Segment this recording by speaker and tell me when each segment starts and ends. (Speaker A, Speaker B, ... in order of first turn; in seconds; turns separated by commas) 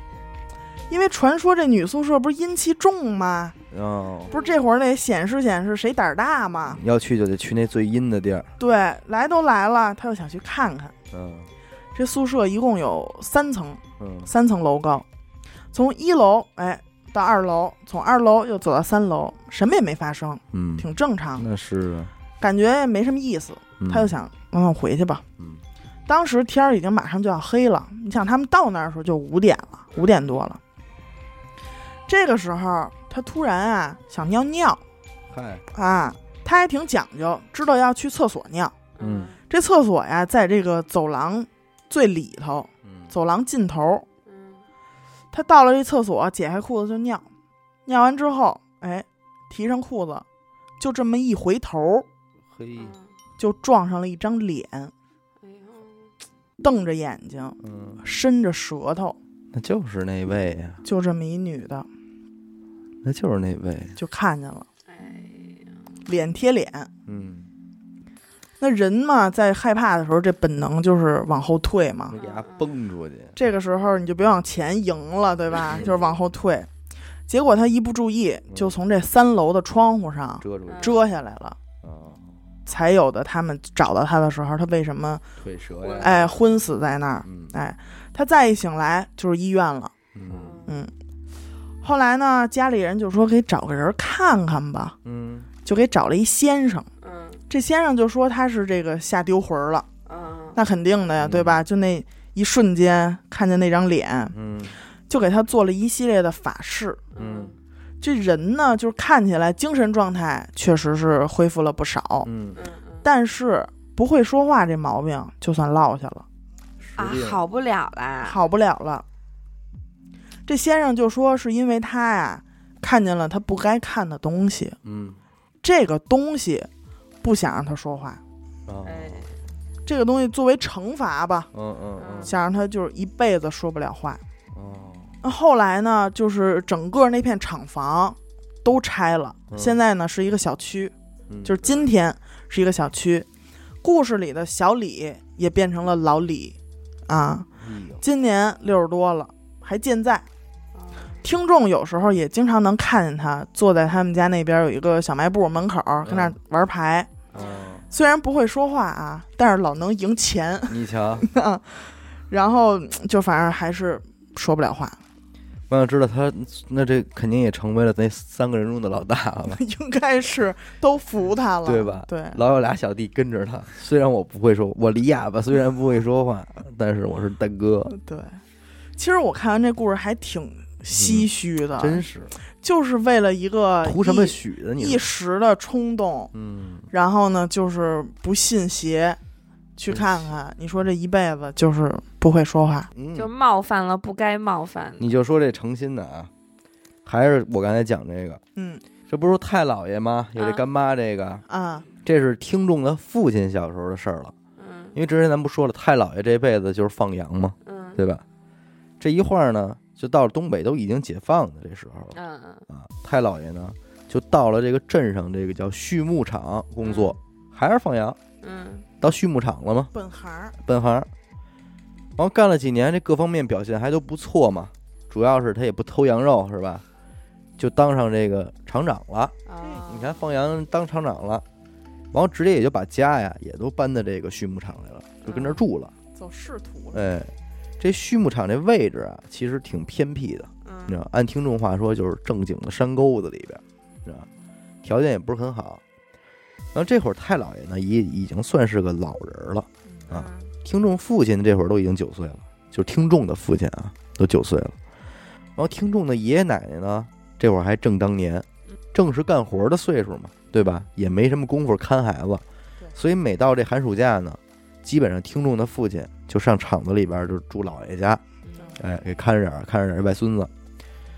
Speaker A: 0.9-3.6, Speaker B: 3.7-4.3, Speaker C: 4.3-4.6, Speaker A: 4.3-6.8, Speaker B: 6.7-8.5, Speaker A: 8.6-10.9, Speaker B: 11.1-11.5, Speaker A: 11.9-15.1, Speaker B: 14.0-14.3, Speaker A: 15.7-21.5, Speaker B: 20.5-20.9, Speaker B: 21.4-22.1, Speaker A: 22.4-25.2, Speaker B: 23.8-24.1, Speaker A: 26.1-30.6, Speaker A: 32.1-34.8, Speaker B: 35.3-35.6, Speaker A: 35.7-38.8, Speaker C: 39.0-39.4, Speaker B: 39.0-39.3, Speaker A: 39.5-44.1, Speaker B: 42.9-43.1, Speaker C: 44.3-44.6, Speaker A: 45.3-47.3, Speaker A: 47.9-50.2, Speaker A: 50.8-52.1, Speaker B: 52.5-52.9, Speaker C: 52.8-53.1, Speaker A: 53.4-54.9, Speaker C: 55.4-56.1, Speaker A: 56.6-59.2, Speaker B: 57.6-58.0, Speaker B: 59.5-60.8, Speaker A: 60.9-61.9, Speaker B: 63.0-64.0, Speaker A: 64.0-64.7, Speaker C: 64.9-65.9, Speaker A: 66.0-66.9, Speaker B: 67.1-67.5, Speaker A: 68.6-72.2, Speaker B: 72.1-73.3, Speaker C: 72.2-72.7, Speaker A: 73.4-76.7, Speaker A: 77.3-81.6, Speaker B: 80.4-81.0, Speaker C: 80.7-81.0, Speaker B: 81.8-82.3, Speaker A: 82.7-85.2, Speaker B: 85.4-86.3, Speaker C: 85.8-86.3, Speaker A: 86.0-89.9, Speaker B: 87.2-87.5, Speaker B: 90.1-90.6, Speaker C: 90.3-90.7, Speaker A: 90.7-90.9, Speaker A: 91.8-95.0, Speaker B: 95.0-95.5, Speaker A: 95.6-96.9, Speaker C: 97.0-97.4, Speaker A: 97.5-99.9, Speaker C: 100.1-100.6, Speaker A: 100.5-104.3, Speaker B: 101.2-101.6, Speaker B: 104.3-104.8, Speaker A: 105.1-107.0, Speaker C: 107.2-107.6, Speaker B: 107.2-107.5, Speaker A: 108.0-112.3, Speaker B: 112.2-112.6, Speaker C: 112.6-113.0, Speaker A: 113.0-116.3, Speaker B: 116.8-117.4, Speaker C: 117.0-118.4, Speaker A: 118.2-119.0, Speaker A: 120.5-124.8, Speaker B: 124.8-125.2, Speaker A: 125.6-126.7, Speaker A: 127.2-128.2, Speaker B: 128.7-129.3, Speaker C: 128.8-129.3, Speaker A: 129.9-131.5, Speaker B: 131.5-132.3, Speaker C: 132.0-132.3, Speaker A: 132.2-134.2, Speaker B: 134.5-135.1, Speaker A: 135.2-140.9, Speaker B: 139.5-139.8, Speaker B: 141.3-141.6, Speaker A: 141.4-143.3, Speaker C: 141.6-141.9, Speaker A: 143.8-146.6, Speaker A: 147.1-147.5, Speaker B: 147.6-148.0, Speaker A: 148.0-150.3, Speaker C: 150.8-151.2, Speaker A: 151.2-157.3, Speaker B: 156.1-156.4, Speaker C: 157.3-157.7, Speaker B: 157.3-157.8, Speaker A: 157.9-165.0, Speaker B: 160.7-161.3, Speaker B: 165.7-169.6, Speaker A: 169.5-172.4, Speaker B: 171.7-178.0, Speaker A: 177.9-178.4, Speaker A: 179.0-182.0, Speaker B: 180.9-182.3, Speaker A: 182.6-186.3, Speaker B: 183.8-185.0, Speaker B: 186.3-186.9, Speaker A: 186.9-189.2, Speaker A: 189.8-192.9, Speaker B: 189.9-190.3, Speaker B: 192.9-193.3, Speaker C: 193.2-195.1, Speaker B: 195.0-196.3, Speaker B: 197.1-198.4, Speaker A: 198.6-198.8, Speaker B: 199.1-201.4, Speaker C: 200.4-200.6, Speaker A: 201.5-201.9, Speaker B: 202.1-204.3, Speaker C: 204.6-205.0, Speaker B: 204.9-208.2, Speaker C: 207.6-208.0, Speaker B: 209.0-212.2, Speaker C: 212.1-212.6, Speaker B: 212.7-218.2, Speaker C: 216.8-217.2, Speaker C: 218.4-218.9, Speaker B: 219.0-219.9, Speaker A: 219.9-220.6, Speaker B: 220.6-221.1, Speaker B: 222.2-226.8, Speaker B: 227.6-231.4, Speaker C: 229.5-230.2, Speaker A: 229.6-229.9, Speaker B: 232.1-235.9, Speaker C: 235.2-235.6, Speaker A: 236.1-237.1, Speaker B: 236.9-244.3, Speaker C: 240.7-240.9, Speaker B: 244.8-245.8, Speaker B: 246.7-254.8, Speaker C: 250.1-250.5, Speaker B: 255.6-268.2, Speaker C: 268.4-268.8, Speaker B: 268.8-270.5